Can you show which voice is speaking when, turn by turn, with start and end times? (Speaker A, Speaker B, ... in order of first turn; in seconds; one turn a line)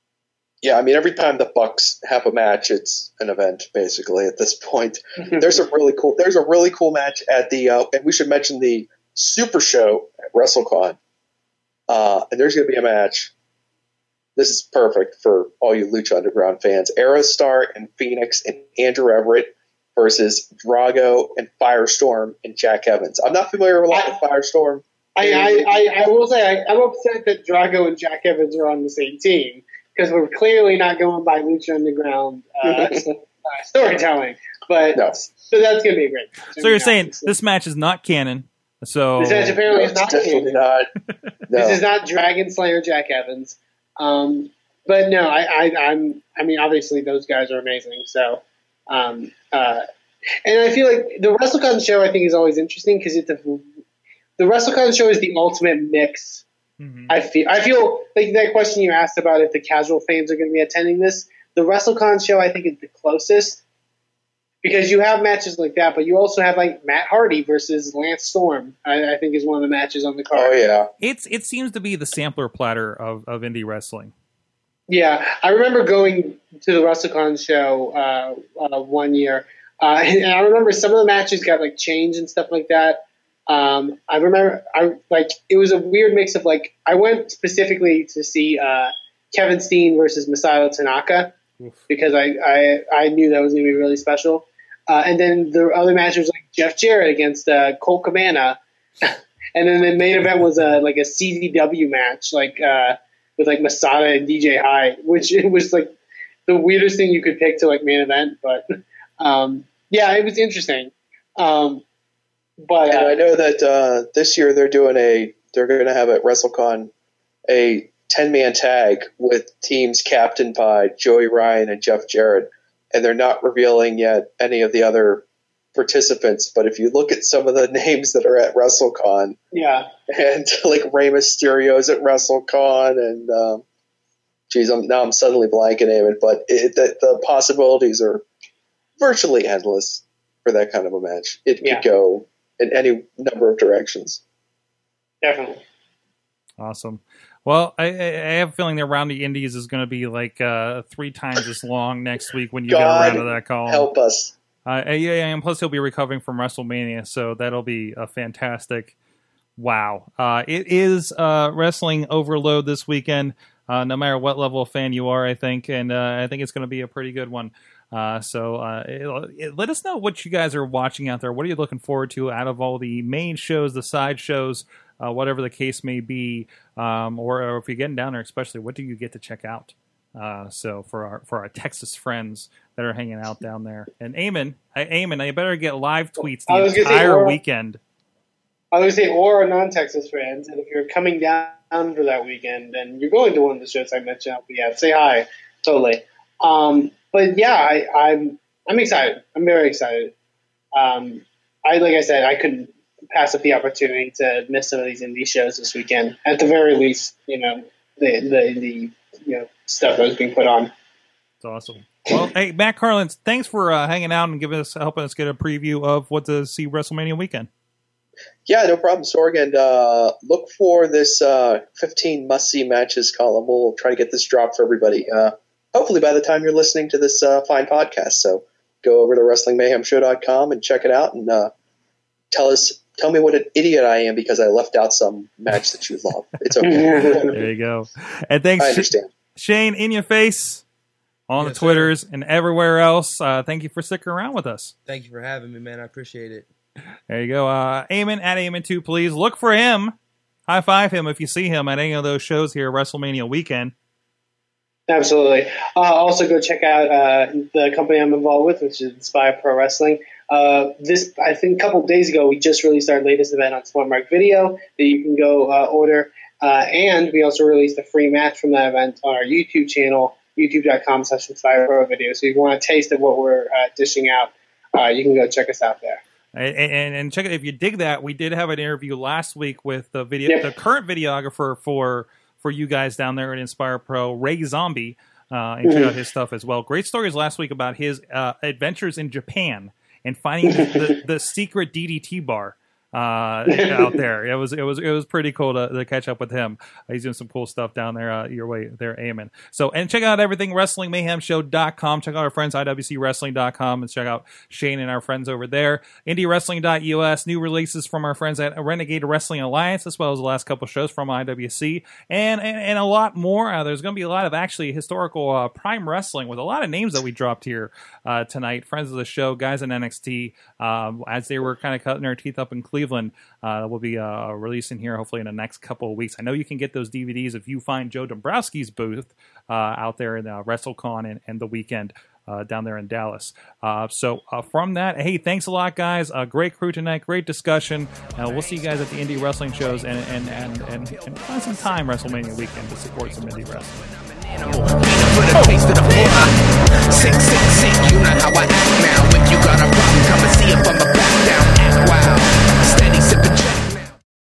Speaker A: 0.6-11.0
Speaker A: 11.9-13.3
Speaker A: 14.4-25.7
Speaker B: 25.2-37.3
Speaker A: 32.6-33.0
Speaker C: 36.6-39.6
Speaker B: 39.2-40.6
Speaker A: 39.7-40.9
Speaker A: 41.5-41.8
Speaker B: 41.5-49.8
Speaker B: 50.5-53.6
Speaker B: 54.4-56.4
Speaker C: 56.8-57.1
Speaker B: 57.1-63.6
Speaker B: 64.6-70.6
Speaker A: 70.3-70.9
Speaker C: 71.0-74.1
Speaker B: 74.9-91.3
Speaker B: 91.9-105.9
Speaker B: 106.5-108.7
Speaker B: 109.2-111.8
Speaker B: 112.6-113.2
Speaker A: 112.9-116.9
Speaker A: 117.5-129.4
Speaker B: 129.5-129.9
Speaker A: 130.1-133.6
Speaker A: 134.5-138.2
Speaker A: 139.0-144.2
Speaker B: 145.2-145.6
Speaker C: 146.6-153.9
Speaker A: 152.7-154.3
Speaker C: 154.7-158.9
Speaker C: 159.6-187.8
Speaker B: 186.5-187.4
Speaker B: 188.7-200.1
Speaker B: 200.7-210.7
Speaker C: 211.4-217.5
Speaker A: 218.5-231.5
Speaker A: 232.3-237.4
Speaker B: 236.6-237.3
Speaker C: 237.3-240.6
Speaker A: 238.6-239.1
Speaker C: 241.3-244.7
Speaker D: 241.4-241.9
Speaker D: 244.9-246.5
Speaker C: 247.1-249.9
Speaker C: 250.5-253.7
Speaker B: 254.9-276.0
Speaker C: 276.4-343.8
Speaker B: 285.6-285.9
Speaker B: 290.6-290.9
Speaker B: 293.5-294.0
Speaker E: 343.9-346.4
Speaker E: 346.9-353.9